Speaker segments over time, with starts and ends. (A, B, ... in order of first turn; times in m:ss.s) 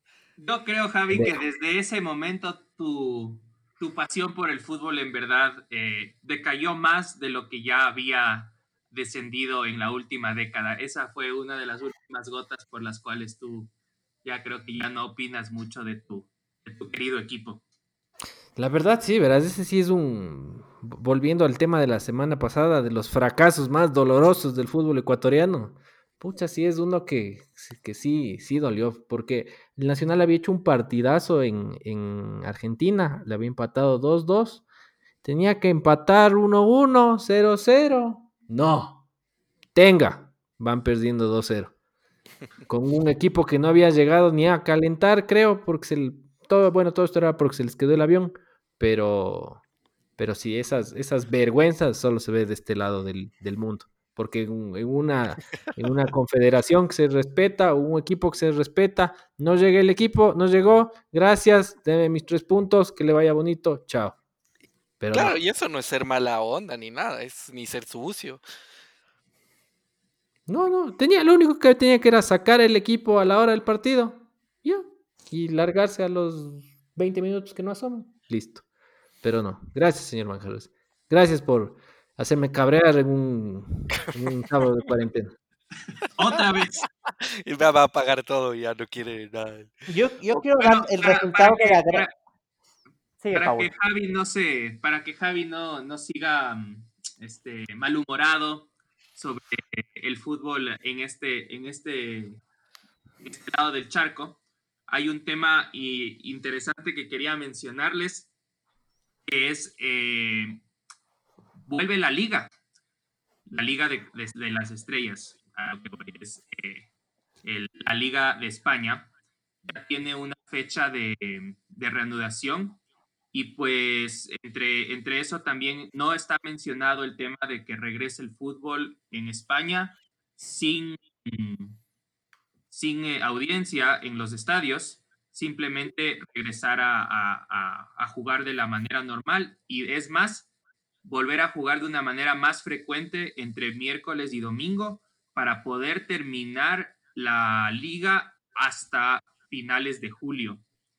0:00.4-0:13.7 A
0:01.1-0:01.4 B
0:14.2-0:17.6 A
0:18.6-0:34.6 B
0:35.2-0:39.0 B
0:39.7-0:41.7 B
0:42.7-0:49.6 B
0:50.2-1:04.2 B
1:05.0-1:05.4 B
1:05.1-1:08.4 C
1:10.5-1:18.6 B
1:19.2-1:25.3 B
1:26.2-1:26.8 A
1:27.4-1:29.7 C
1:29.9-1:32.0 D
1:30.6-1:32.1 A
1:33.2-1:33.7 D
1:33.3-1:42.4 A
1:43.2-1:48.3 A
1:49.3-1:50.6 A
1:51.7-1:52.5 A
1:53.4-1:56.9 A
1:57.4-1:59.1 A
1:59.6-2:02.8 A
2:03.3-2:11.8 A
2:12.7-2:20.5 A
2:21.0-2:30.6 A